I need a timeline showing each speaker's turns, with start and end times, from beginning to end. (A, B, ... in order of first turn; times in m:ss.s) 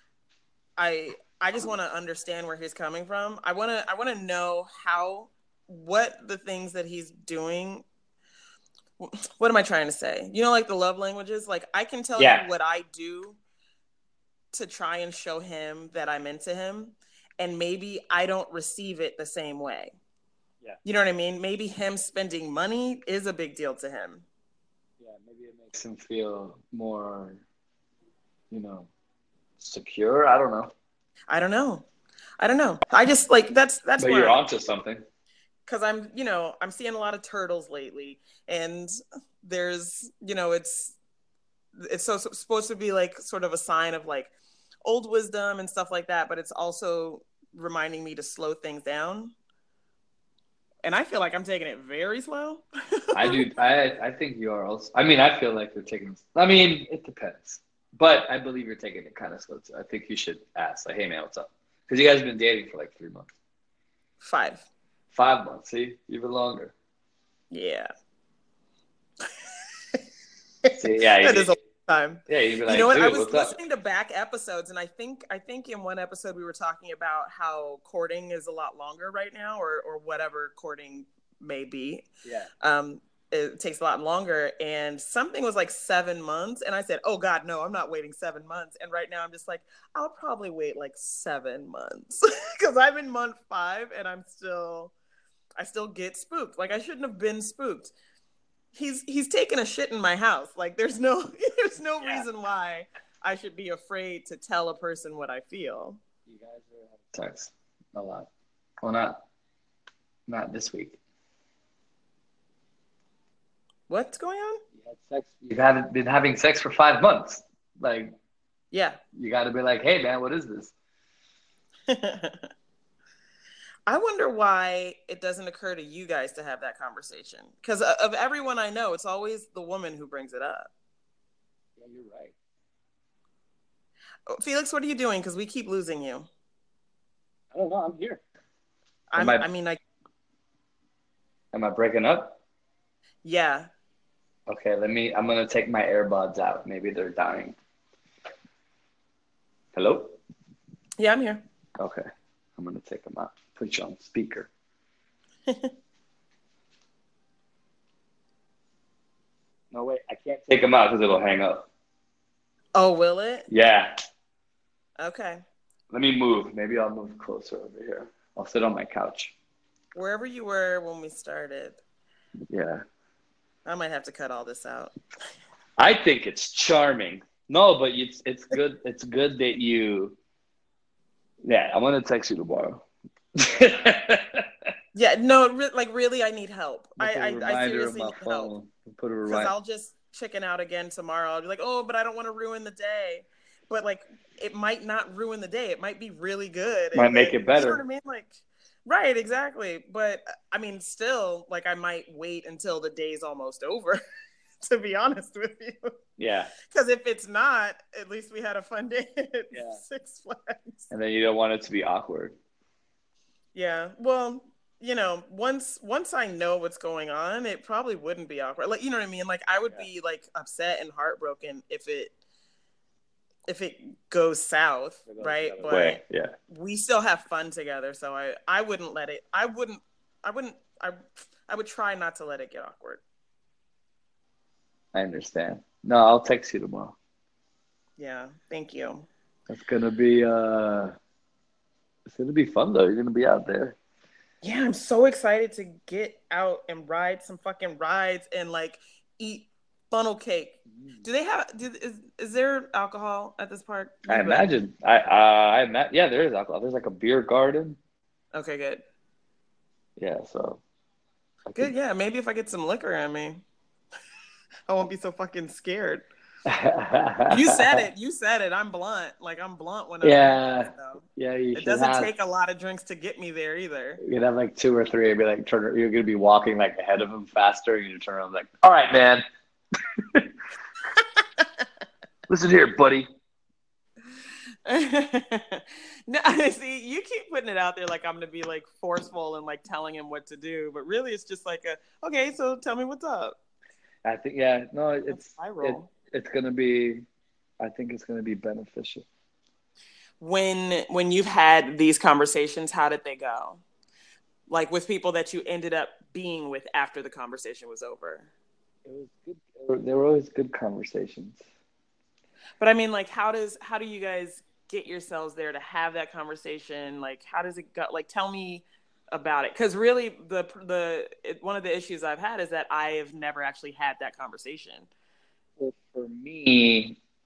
0:00.8-0:07.8 A
0:09.0-0:13.4 A
0:12.2-0:12.4 B
0:14.5-0:19.9 A
0:20.8-0:24.2 A
0:25.0-0:27.4 B
0:28.5-0:28.9 B
0:29.6-0:30.7 B
0:31.3-0:31.8 A
0:32.4-0:34.4 A
0:34.0-0:35.0 B
0:35.6-0:41.0 A
0:41.8-0:44.3 A
0:44.8-0:49.3 A
0:50.8-0:53.5 A
0:53.1-1:03.3 B
1:04.2-1:04.6 A
1:05.1-1:06.7 B
1:07.5-1:07.9 A
1:10.6-1:22.1 A
1:10.8-1:11.5 B
1:12.3-1:13.6 B
1:22.2-1:22.5 B
1:22.6-1:34.9 A
1:35.6-1:37.9 A
1:38.7-1:46.0 A
1:46.3-1:48.3 B
1:48.8-1:49.2 B
1:50.3-1:51.0 B
1:53.9-1:54.6 A
1:54.8-1:58.2 B
1:58.7-1:59.0 A
1:59.1-2:00.7 B
2:01.9-2:02.5 A
2:03.9-2:10.7 A
2:11.8-2:12.3 B
2:14.3-2:16.3 A
2:17.5-2:18.2 B
2:19.1-2:19.8 A
2:19.2-2:19.4 B
2:21.5-2:22.4 B
2:23.2-2:23.7 A
2:24.5-2:27.6 B
2:29.7-2:30.2 B
2:31.0-2:31.4 A
2:31.8-2:34.5 B
2:35.5-2:35.7 A
2:39.7-2:41.7 B
2:42.7-2:43.5 A
2:43.5-2:44.0 B
2:45.0-2:45.4 A
2:45.9-2:49.3 B
2:49.9-2:51.8 A
2:52.5-2:52.8 B
2:53.6-2:54.9 A
2:55.8-3:00.2 B
3:01.4-3:02.8 B
3:03.4-3:04.5 B
3:04.9-3:08.5 A
3:07.0-3:09.5 B
3:09.3-3:24.0 A
3:16.9-3:17.8 B
3:24.6-3:25.9 A
3:26.2-3:26.5 B
3:26.6-3:30.9 A
3:29.5-3:29.8 B
3:30.9-3:32.4 B
3:33.5-3:42.1 A
3:43.5-3:53.0 A
3:45.1-3:46.3 B
3:54.9-3:57.0 B
3:58.0-3:59.0 A
3:59.5-4:00.9 B
4:02.1-4:03.8 B
4:04.4-4:14.5 A
4:14.1-4:17.8 B
4:18.3-4:18.8 A
4:20.0-4:20.6 B
4:21.6-4:23.4 A
4:24.7-4:26.0 A
4:26.4-4:27.8 B
4:27.3-4:31.0 A
4:30.0-4:32.1 B
4:31.5-4:34.0 A
4:34.0-4:39.2 B
4:39.9-4:40.3 B
4:42.3-4:43.1 B
4:44.6-4:53.4 A
4:54.0-4:57.0 B
4:55.1-4:55.9 A
4:57.6-4:59.0 B
5:00.2-5:03.6 A
5:04.5-5:08.3 A
5:08.8-5:11.4 B
5:12.6-5:24.9 A
5:25.6-5:27.0 B